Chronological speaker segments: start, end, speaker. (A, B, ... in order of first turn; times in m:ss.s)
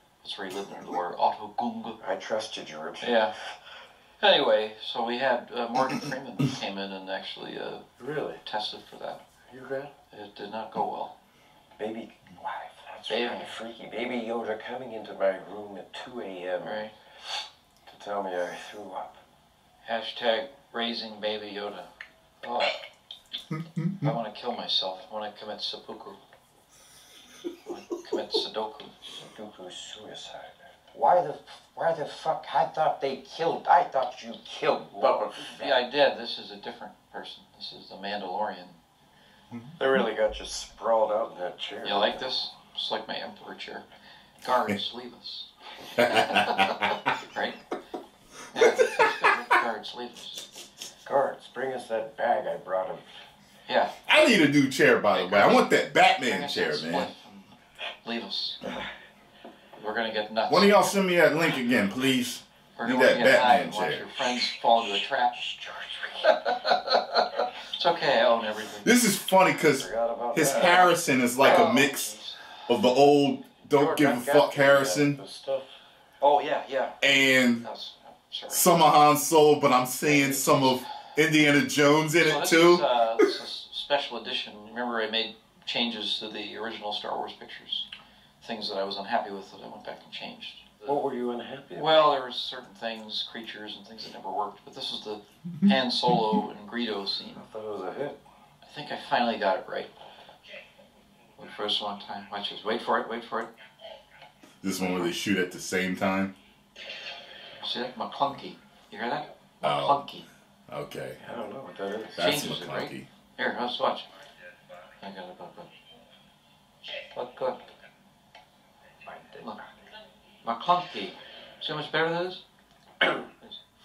0:00.2-0:02.0 A
0:02.0-0:03.2 B
0:03.0-0:03.4 A
0:04.2-0:07.9 A
0:08.0-0:08.4 B
0:08.4-0:09.2 A
0:09.5-0:09.9 B
0:10.1-0:11.2 A
0:11.8-0:16.9 B
0:13.1-0:13.5 A
0:16.6-0:16.9 A
0:17.9-0:19.2 B
0:19.8-0:21.9 A
0:22.4-0:22.8 A
0:23.8-0:26.2 A
0:27.6-0:29.0 A
0:29.1-0:35.8 B
0:35.0-0:38.8 A
0:39.8-0:42.3 B
0:41.8-0:43.9 A
0:44.4-0:47.6 A
0:46.0-0:46.7 C
0:48.5-0:50.4 A
0:51.0-0:53.1 B
0:53.7-0:54.0 A
0:54.1-0:57.1 C
0:55.1-0:57.5 A
0:58.0-0:58.8 A
0:59.8-1:00.7 A
1:00.5-1:04.1 C
1:02.8-1:05.4 A
1:05.3-1:06.4 B
1:06.3-1:08.9 A
1:08.8-1:12.1 C
1:09.6-1:10.9 B
1:10.4-1:10.9 A
1:11.4-1:12.4 A
1:12.7-1:15.2 C
1:13.7-1:15.7 B
1:16.2-1:18.7 A
1:17.0-1:17.6 C
1:18.5-1:22.8 C
1:20.1-1:20.6 B
1:22.2-1:27.9 A
1:28.4-1:31.0 A
1:30.8-1:32.1 B
1:31.8-1:37.4 A
1:37.4-1:38.2 B
1:38.6-1:39.9 A
1:41.4-1:43.5 A
1:44.6-1:46.3 C
1:47.6-1:50.3 A
1:49.6-1:50.0 C
1:50.7-1:51.2 C
1:51.2-1:52.2 B
1:52.2-1:53.1 C
1:52.2-1:54.1 A
1:55.0-1:55.7 A
1:57.1-1:57.6 A
1:59.1-1:59.6 B
1:59.4-1:59.6 A
2:00.4-2:02.4 A